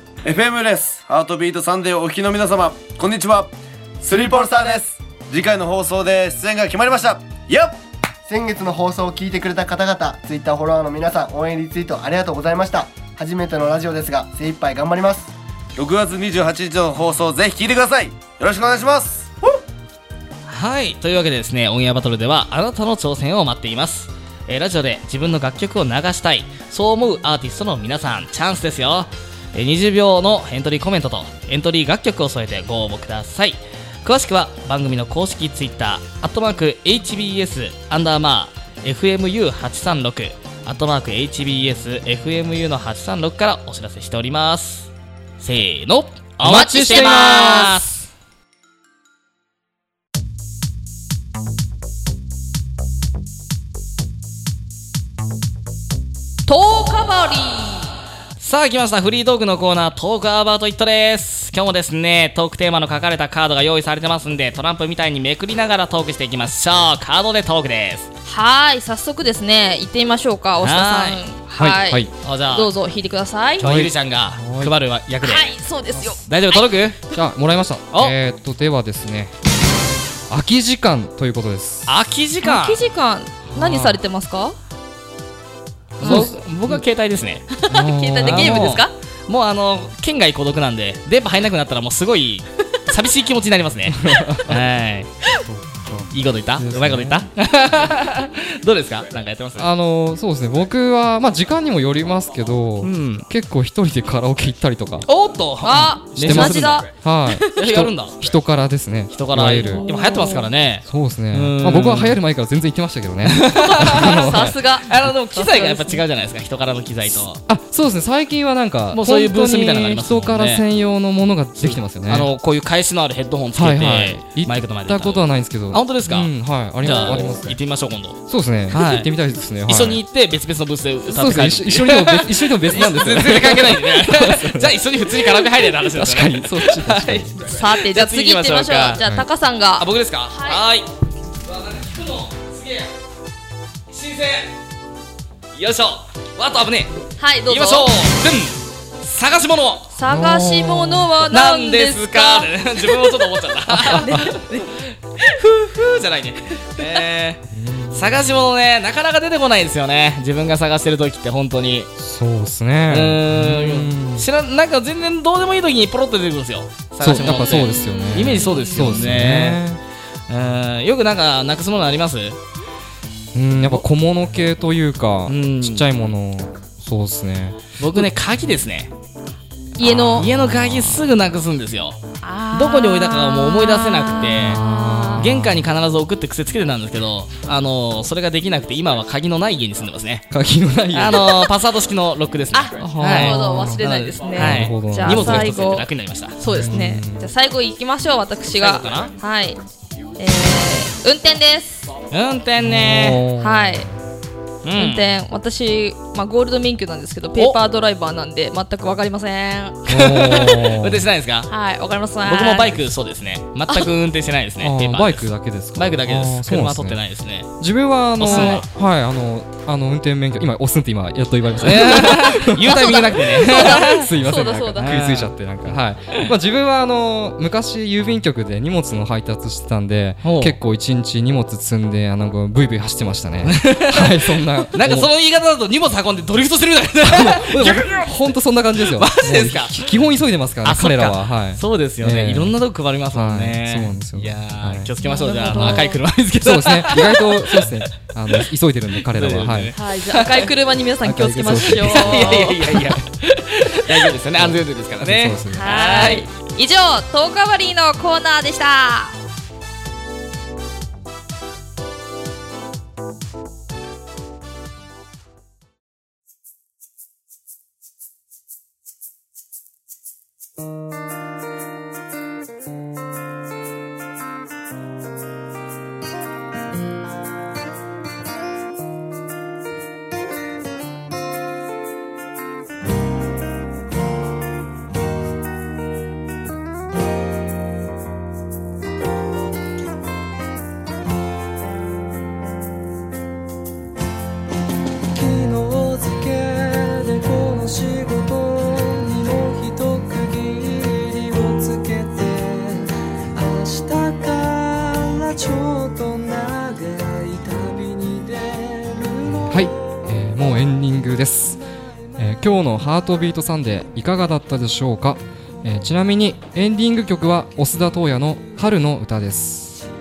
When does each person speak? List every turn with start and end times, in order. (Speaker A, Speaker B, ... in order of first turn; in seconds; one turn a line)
Speaker A: 0.2-7.8
Speaker B: 8.3-15.3
Speaker A: 15.8-19.3
Speaker C: 20.5-48.0
Speaker D: 46.4-47.9
Speaker E: 46.4-47.8
Speaker E: 56.5-57.9
Speaker C: 58.4-68.1
Speaker E: 68.2-73.7
Speaker C: 70.6-71.2
Speaker D: 71.6-72.1
Speaker C: 72.2-72.7
Speaker C: 73.6-77.0
Speaker D: 73.6-74.7
Speaker E: 75.2-76.7
Speaker D: 77.1-79.3
Speaker D: 80.3-81.9
Speaker C: 81.9-82.8
Speaker E: 82.4-84.5
Speaker D: 83.5-84.0
Speaker C: 86.0-87.5
Speaker E: 86.0-86.3
Speaker D: 86.0-86.8
Speaker E: 87.5-88.9
Speaker D: 87.7-88.8
Speaker C: 88.2-95.1
Speaker D: 93.9-94.7
Speaker D: 95.4-97.3
Speaker C: 96.1-99.7
Speaker D: 99.5-105.1
Speaker C: 102.8-103.3
Speaker C: 105.0-106.8
Speaker E: 105.6-107.5
Speaker D: 106.0-109.8
Speaker C: 107.6-108.2
Speaker C: 109.1-112.2
Speaker E: 109.7-110.5
Speaker D: 110.8-114.6
Speaker C: 113.2-117.4
Speaker E: 113.6-116.0
Speaker D: 117.5-122.3
Speaker C: 118.9-120.6
Speaker C: 121.6-129.1
Speaker D: 123.5-127.6
Speaker D: 128.2-130.0
Speaker C: 129.6-139.0
Speaker D: 131.1-137.4
Speaker E: 137.4-140.6
Speaker D: 139.0-139.2
Speaker C: 139.8-140.9
Speaker C: 141.4-142.9
Speaker C: 143.9-144.5
Speaker C: 145.5-149.9
Speaker E: 147.2-147.9
Speaker E: 149.9-154.7
Speaker D: 150.1-151.1
Speaker C: 151.2-161.9
Speaker D: 153.7-154.3
Speaker D: 157.5-158.2
Speaker D: 162.0-164.3
Speaker C: 162.9-169.6
Speaker D: 167.0-169.8
Speaker E: 167.9-168.9
Speaker C: 170.3-172.4
Speaker D: 173.3-178.1
Speaker C: 175.3-175.9
Speaker C: 177.8-178.9
Speaker E: 179.8-180.3
Speaker D: 179.8-181.0
Speaker C: 180.1-182.0
Speaker E: 182.2-185.2
Speaker C: 182.5-184.6
Speaker D: 184.4-185.7
Speaker C: 185.2-190.3
Speaker D: 190.3-191.5
Speaker C: 190.9-196.7
Speaker E: 192.5-199.6
Speaker D: 192.8-195.6
Speaker D: 196.4-197.3
Speaker C: 198.6-199.1
Speaker E: 200.2-201.9
Speaker C: 202.1-203.2
Speaker D: 202.6-203.9
Speaker E: 203.4-203.9
Speaker C: 204.6-205.1
Speaker E: 204.8-209.9
Speaker D: 209.9-211.1
Speaker C: 209.9-211.5
Speaker E: 211.5-212.8
Speaker C: 212.2-217.5
Speaker D: 214.6-217.0
Speaker D: 217.6-235.1
Speaker C: 218.2-218.7
Speaker E: 218.3-218.6
Speaker C: 221.6-224.1
Speaker E: 222.5-224.9
Speaker C: 224.8-226.3
Speaker C: 230.2-230.6
Speaker C: 233.4-238.2
Speaker D: 237.0-242.6
Speaker C: 238.8-239.9
Speaker C: 240.6-248.4
Speaker D: 243.1-244.9
Speaker E: 245.0-246.0
Speaker D: 245.5-245.8
Speaker D: 246.4-249.7
Speaker C: 249.0-250.5
Speaker E: 249.7-252.6
Speaker D: 251.0-253.0
Speaker C: 251.6-256.2
Speaker D: 254.3-256.0
Speaker E: 255.5-259.1
Speaker F: 295.1-309.8
Speaker D: 309.3-311.6
Speaker D: 312.2-319.8